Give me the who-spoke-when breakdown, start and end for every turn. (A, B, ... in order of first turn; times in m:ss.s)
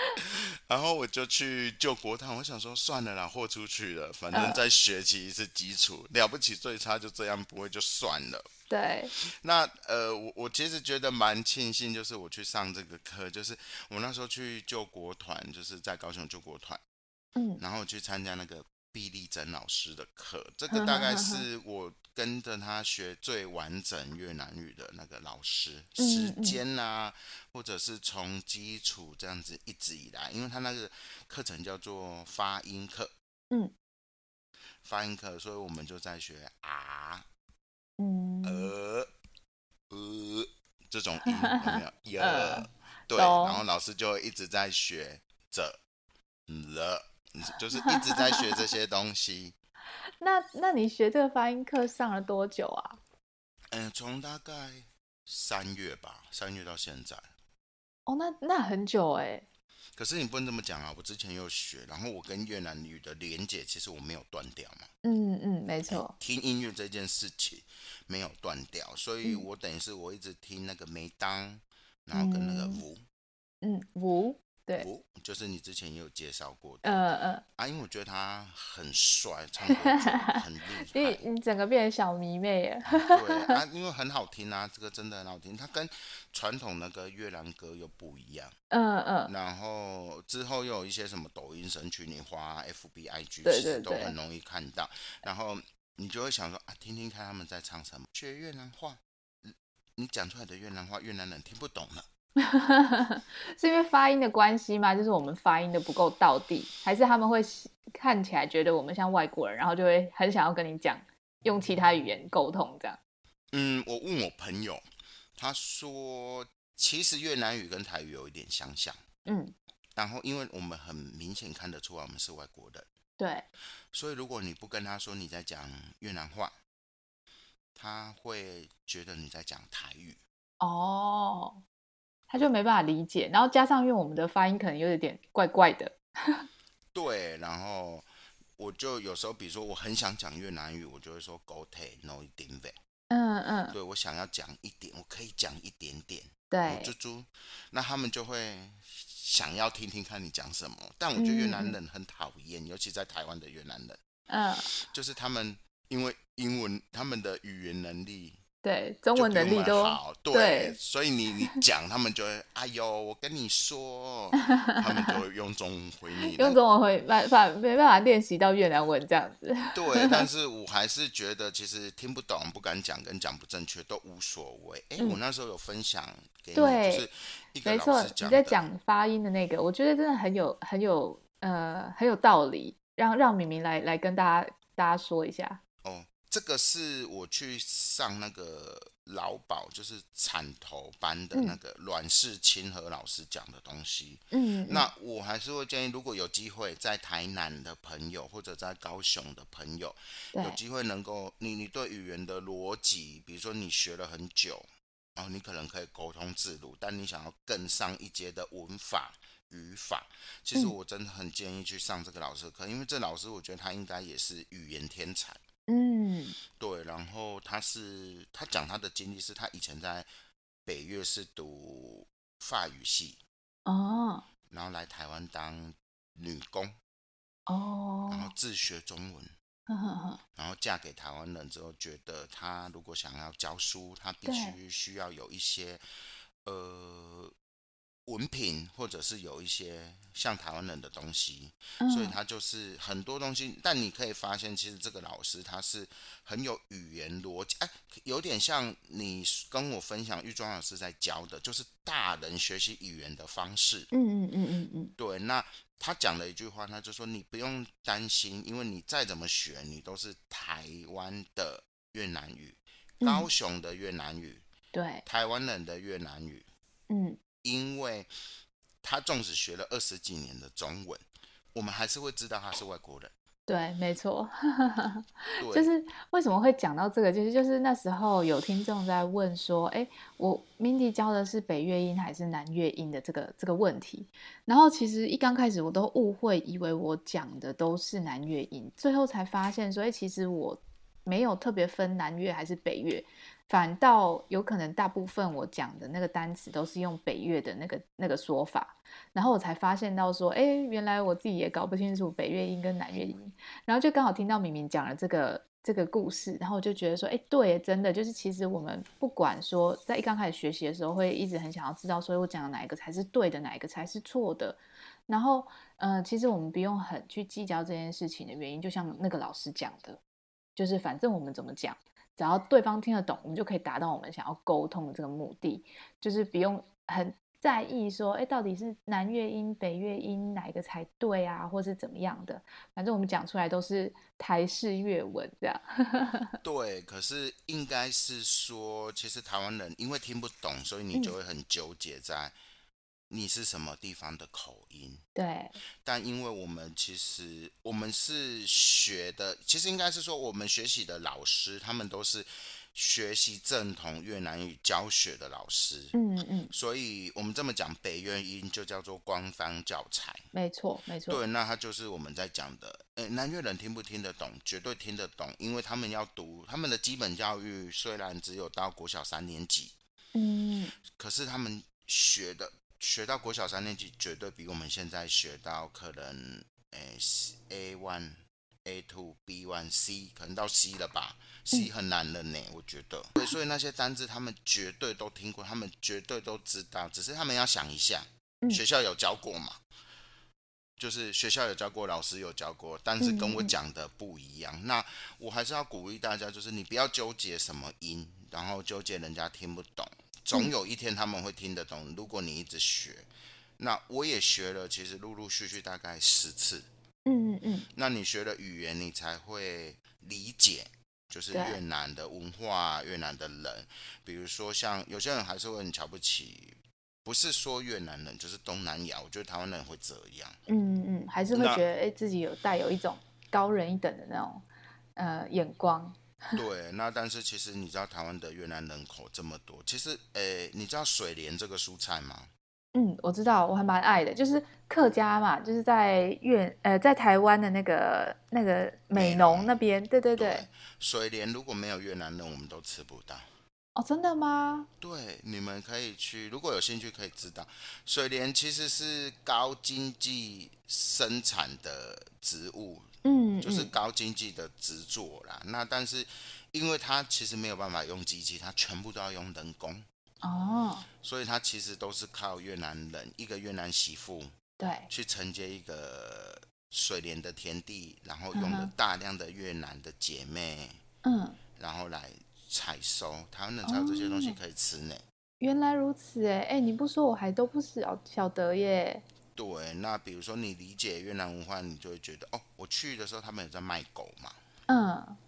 0:00.2-0:08.5 A
0:04.3-0:04.6 B
0:08.7-0:09.1 B
0:09.2-0:16.8 A
0:17.4-0:17.6 B
0:17.6-0:33.1 A
0:20.7-0:21.4 B
0:26.0-0:26.6 B
0:34.8-0:37.3 A
0:38.0-0:38.7 B
0:38.4-0:39.1 A
0:39.9-0:45.8 A
0:41.4-0:43.6 B
0:46.5-0:49.6 A
0:50.2-0:53.0 B
0:53.7-0:57.3 A
0:58.1-0:59.5 B
1:00.0-1:04.9 A
1:05.0-1:06.1 B
1:05.9-1:13.0 A
1:12.1-1:12.8 B
1:13.6-1:14.9 B
1:14.8-1:17.0 A
1:16.8-1:17.4 B
1:17.6-1:21.2 A
1:19.7-1:23.6 B
1:22.9-1:28.6 A
1:28.7-1:29.3 B
1:29.3-1:42.1 A
1:33.4-1:34.1 B
1:42.4-1:53.0 B
1:53.5-1:54.8 A
1:55.4-1:59.0 A
1:59.3-1:59.5 B
2:00.0-2:02.9 A
2:03.2-2:03.5 B
2:03.9-2:06.6 A
2:07.8-2:10.2 A
2:10.6-2:11.6 B
2:12.3-2:16.5 B
2:16.9-2:22.8 A
2:23.1-2:23.8 B
2:23.7-2:34.0 A
2:26.5-2:26.9 B
2:31.2-2:31.8 B
2:34.3-2:34.7 B
2:34.8-2:38.4 A
2:38.6-2:40.8 B
2:39.1-2:46.6 A
2:44.6-2:45.1 B
2:46.3-2:50.3 B
2:49.7-2:58.6 A
2:56.6-2:57.1 B
2:57.6-3:05.6 B
3:05.8-3:35.4 A
3:14.3-3:14.9 B
3:20.3-3:20.6 B
3:35.7-3:36.4 B
3:36.6-3:40.1 A
3:40.7-3:43.2 A
3:43.7-3:44.2 B
3:44.5-3:46.8 A
3:47.5-3:48.3 B
3:48.1-3:49.3 A
3:49.7-3:50.2 B
3:50.4-3:55.8 A
3:54.2-3:54.6 B
3:56.4-3:57.3 A
3:58.1-4:13.9 A
4:01.8-4:02.2 B
4:13.9-4:14.9 B
4:15.0-4:24.4 A
4:23.0-4:23.3 B
4:24.7-4:25.0 B
4:25.1-4:26.5 A
4:26.9-4:27.2 B
4:27.4-4:28.1 A
4:28.8-4:31.0 A
4:31.6-4:33.1 A
4:33.5-5:20.0 B
4:35.4-4:35.7 A
5:20.6-5:36.4 B
5:36.4-5:42.4 A
5:43.1-5:45.0 A
5:45.2-5:45.6 B
5:45.8-5:56.0 A
5:55.9-5:56.5 B
5:56.5-6:00.2 A
6:00.3-6:01.2 B
6:01.1-6:09.8 A
6:10.2-6:10.8 B
6:11.0-6:29.6 A
6:30.8-6:43.1 A
6:33.0-6:33.5 B
6:43.6-6:46.7 A
6:47.1-6:47.7 B
6:47.7-7:00.4 A
6:51.3-6:51.6 B
7:00.5-7:04.4 B
7:01.3-7:01.6 A
7:05.0-7:06.4 B
7:06.4-7:12.3 A
7:12.7-7:20.5 B
7:18.9-7:19.6 A
7:20.2-7:23.3 A
7:23.8-7:24.7 B
7:24.8-7:32.9 A
7:33.0-7:33.7 B
7:33.4-7:39.9 A
7:40.2-7:40.9 B
7:41.0-7:44.4 A
7:44.6-7:44.9 B
7:44.9-7:50.8 A
7:48.3-7:48.7 B
7:51.0-7:51.4 B
7:51.6-7:55.0 A
7:53.6-7:54.4 B
7:55.4-7:59.0 B
7:59.4-8:04.4 A
8:04.7-8:05.2 B